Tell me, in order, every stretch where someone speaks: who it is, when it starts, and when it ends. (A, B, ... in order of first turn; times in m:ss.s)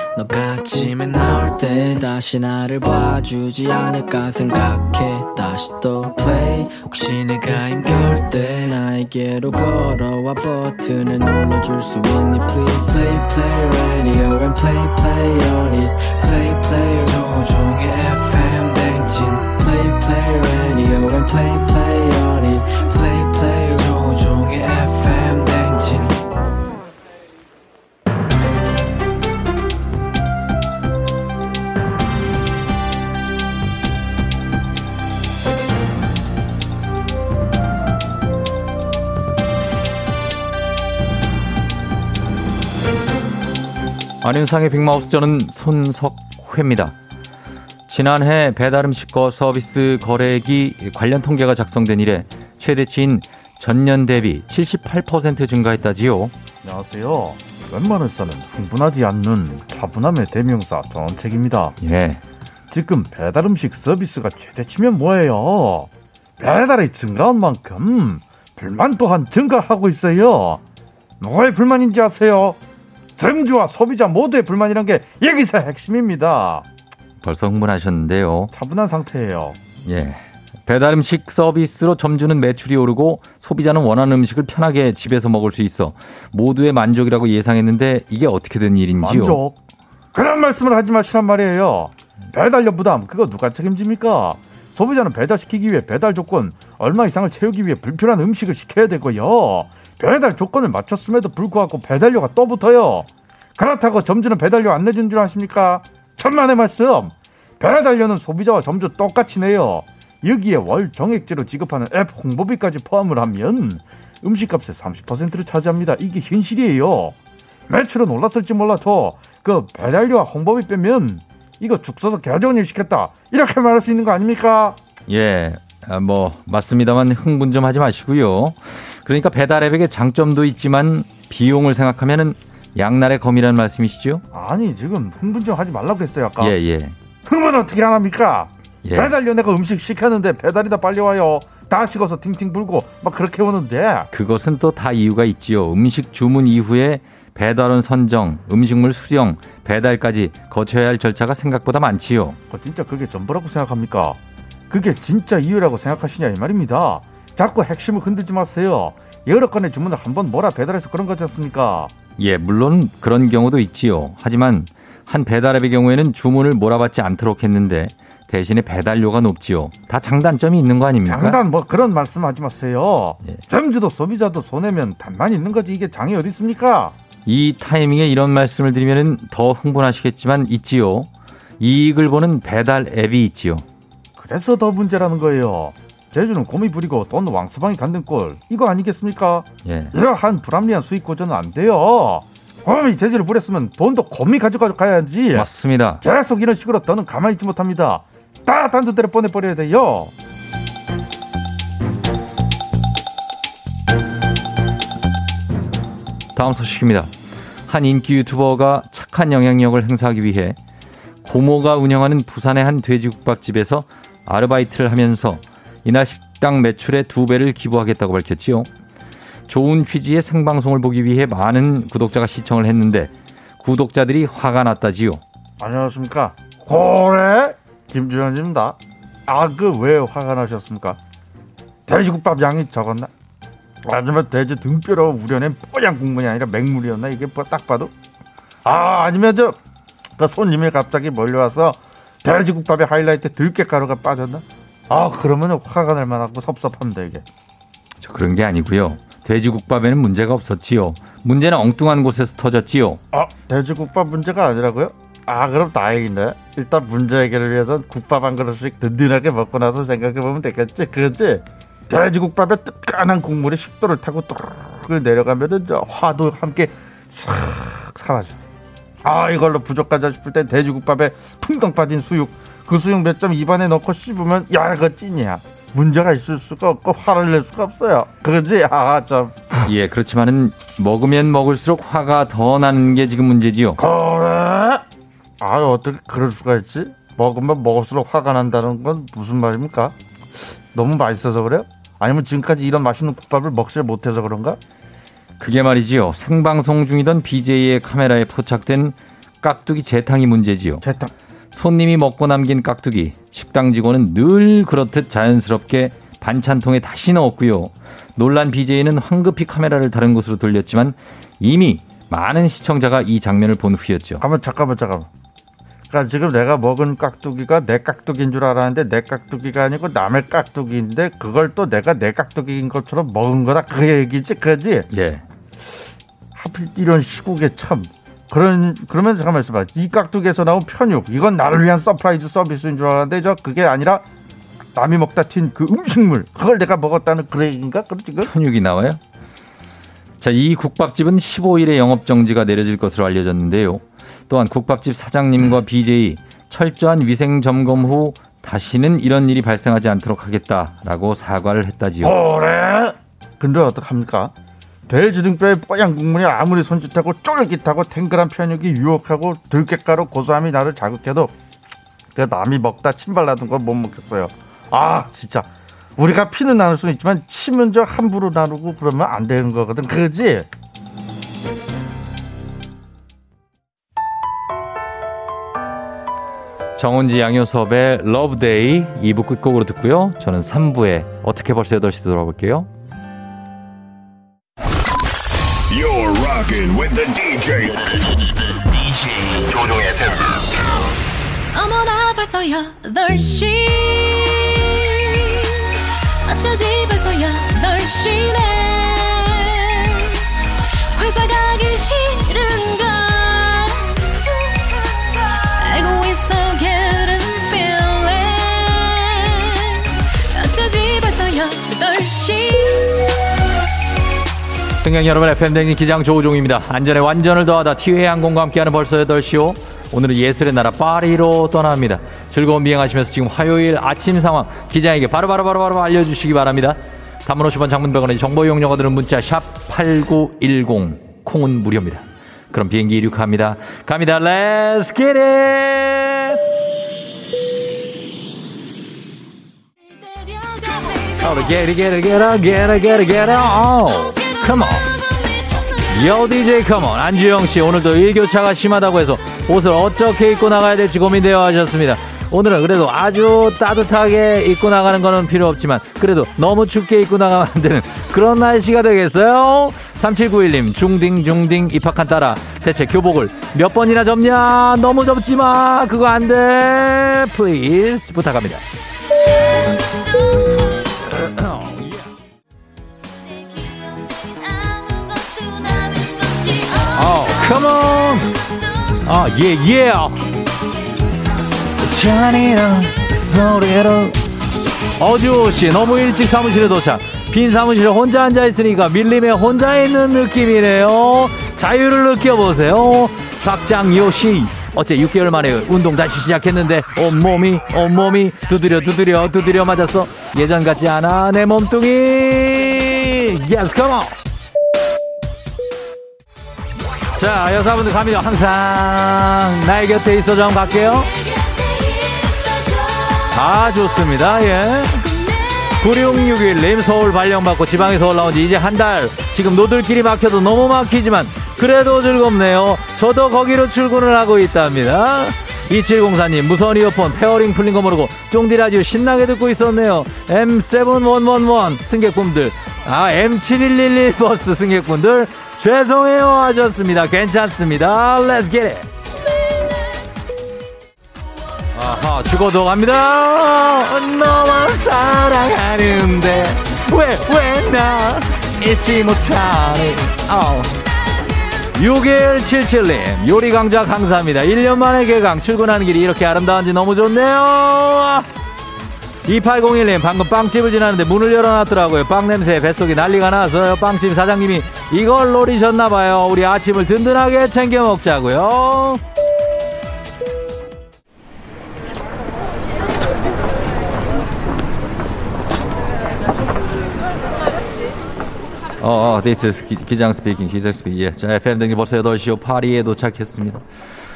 0:00.5-0:09.8 A
0:10.9-0:22.2 A
0:23.0-0:26.1 A
0:44.2-0:46.9 B
0:47.9-0:56.3 B
0:56.6-1:01.7 C
1:01.8-1:02.2 B
1:02.7-1:10.6 C
1:11.2-1:12.6 C
1:13.2-1:16.6 C
1:17.2-1:18.5 B
1:18.5-1:19.6 C
1:19.8-1:29.4 B
1:29.0-1:29.6 C
1:30.1-1:57.2 C
1:57.7-2:04.8 C
2:05.1-2:14.2 B
2:14.3-2:16.5 C
2:16.4-2:17.0 B
2:17.2-2:24.1 C
2:18.8-2:19.1 B
2:24.1-2:32.4 B
2:32.5-2:34.2 C
2:34.7-2:41.9 C
2:42.2-2:51.4 B
2:51.0-2:56.9 C
2:57.2-3:03.6 B
3:04.2-3:15.5 C
3:09.6-3:09.9 B
3:15.3-3:16.0 B
3:16.0-3:20.1 C
3:26.3-3:27.1 B
3:27.7-3:30.6 B
3:31.2-3:38.7 B
3:39.5-3:45.2 B
3:45.6-3:51.0 C
3:51.9-3:53.1 C
3:53.8-3:57.9 C
3:58.6-3:59.6 C
4:00.2-4:07.2 C
4:08.0-4:13.0 B
4:13.1-4:28.4 C
4:29.0-4:39.6 C
4:39.6-4:43.8 B
4:43.8-4:44.8 C
4:45.4-4:49.9 C
4:50.7-4:54.6 C
4:55.4-5:00.8 B
5:00.8-5:01.1 C
5:01.5-5:14.2 B
5:14.2-5:15.1 C
5:15.9-5:24.9 C
5:24.9-5:25.2 B
5:26.3-5:34.0 C
5:34.7-5:38.3 C
5:38.2-5:39.0 B
5:40.2-5:52.2 B
5:52.0-5:54.3 C
5:54.9-6:01.3 C
6:02.1-6:10.5 C
6:16.8-6:22.7 B
6:25.7-6:30.8 D
6:31.5-6:35.4 E
6:36.2-6:40.1 E
6:40.9-6:43.9 E
6:45.6-6:53.1 E
6:54.8-7:16.4 B
7:20.4-7:20.9 E
7:21.2-7:24.9 B
7:25.8-7:48.7 B
7:51.0-7:52.0 B
7:55.3-7:56.9 E
7:56.9-7:58.3 B
7:59.0-8:00.3 B
8:01.8-8:04.2 B
8:05.0-8:24.2 B
8:27.1-8:31.1 B
8:33.3-8:35.1 B
8:35.3-8:35.7 E
8:35.8-8:58.9 B
9:01.7-9:10.8 B
9:11.7-9:18.3 B
9:19.2-9:29.0 B
9:38.8-9:43.6 B